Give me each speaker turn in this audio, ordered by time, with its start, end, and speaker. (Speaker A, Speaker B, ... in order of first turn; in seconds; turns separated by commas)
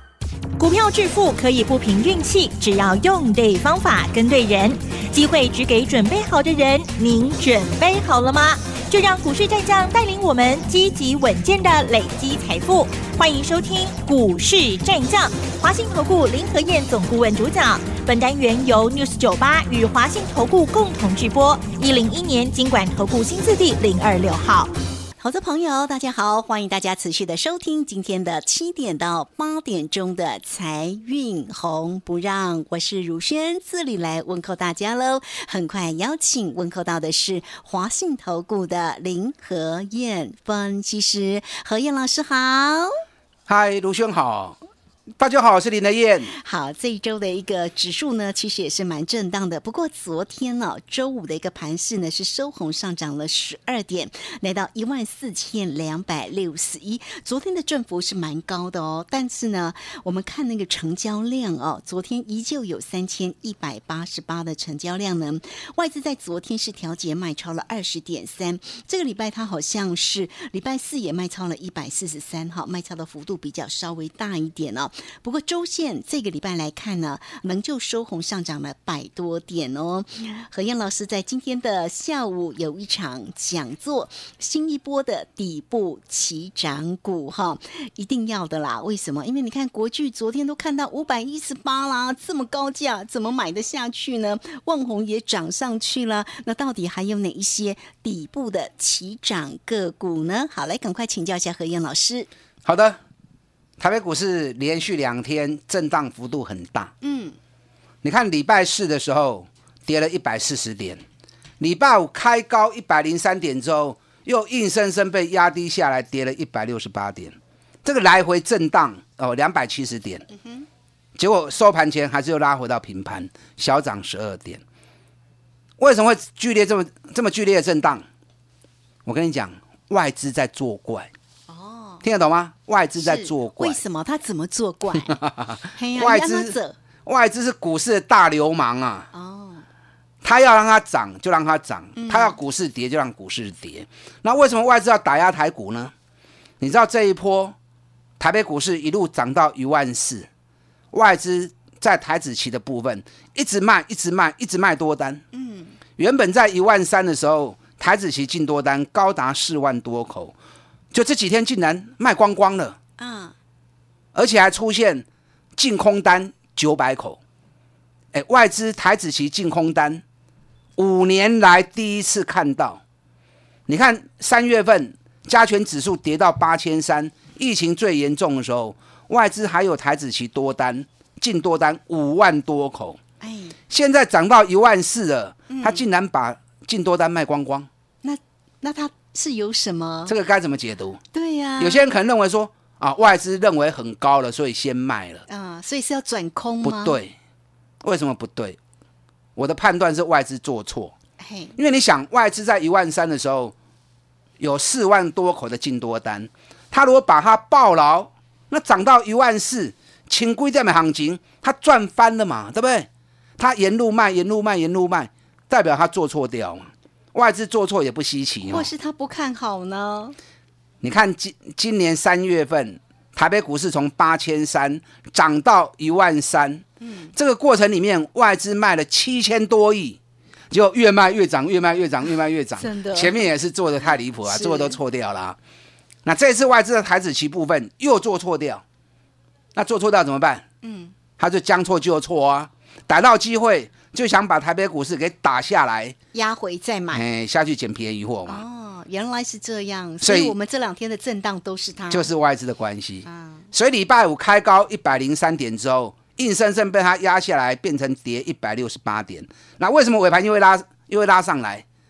Speaker A: 0.6-24.7, Speaker B: 25.2-42.9, Speaker C: 43.5-44.6, Speaker C: 45.2-46.3, Speaker B: 46.3-102.3, Speaker C: 102.6-103.0, Speaker C: 103.8-106.9, Speaker B: 107.0-107.4, Speaker C: 108.0-111.0, Speaker C: 111.6-120.2, Speaker B: 120.3-120.7, Speaker C: 121.2-124.6, Speaker C: 125.8-128.0, Speaker C: 129.0-131.1, Speaker B: 131.5-132.0, Speaker C: 132.0-133.8, Speaker B: 133.0-135.2, Speaker C: 135.2-139.1, Speaker B: 135.7-136.8, Speaker B: 139.1-139.6, Speaker C: 140.2-145.9, Speaker B: 141.9-142.3, Speaker C: 146.6-147.5, Speaker C: 148.2-150.3, Speaker C: 150.9-155.2, Speaker B: 155.3-155.8, Speaker C: 156.0-160.3, Speaker C: 160.9-162.8, Speaker B: 163.0-163.3, Speaker C: 164.1-165.0, Speaker C: 165.6-167.2, Speaker C: 168.1-170.0, Speaker C: 170.8-172.8, Speaker C: 173.7-183.0, Speaker B: 183.2-183.6, Speaker C: 183.7-187.7, Speaker B: 185.5-185.8, Speaker B: 188.0-190.1, Speaker C: 190.1-191.0, Speaker B: 191.1-191.9, Speaker C: 191.6-195.2, Speaker B: 195.3-197.0, Speaker C: 196.6-197.1, Speaker C: 197.8-198.6, Speaker C: 199.3-200.9, Speaker B: 201.2-201.5, Speaker C: 201.6-203.5, Speaker C: 204.4-218.7, Speaker B: 218.5-220.2, Speaker C: 220.8-230.0, Speaker B: 226.8-227.1, Speaker C: 230.5-235.4, Speaker B: 232.6-233.1, Speaker B: 234.2-234.8, Speaker C: 236.0-238.6, Speaker C: 239.5-240.4, Speaker B: 240.6-240.9, Speaker C: 241.2-245.9, Speaker B: 246.1-247.0, Speaker C: 246.9-248.4, Speaker B: 248.3-252.1, Speaker C: 250.0-250.3, Speaker C: 251.9-261.6, Speaker B: 253.0-253.5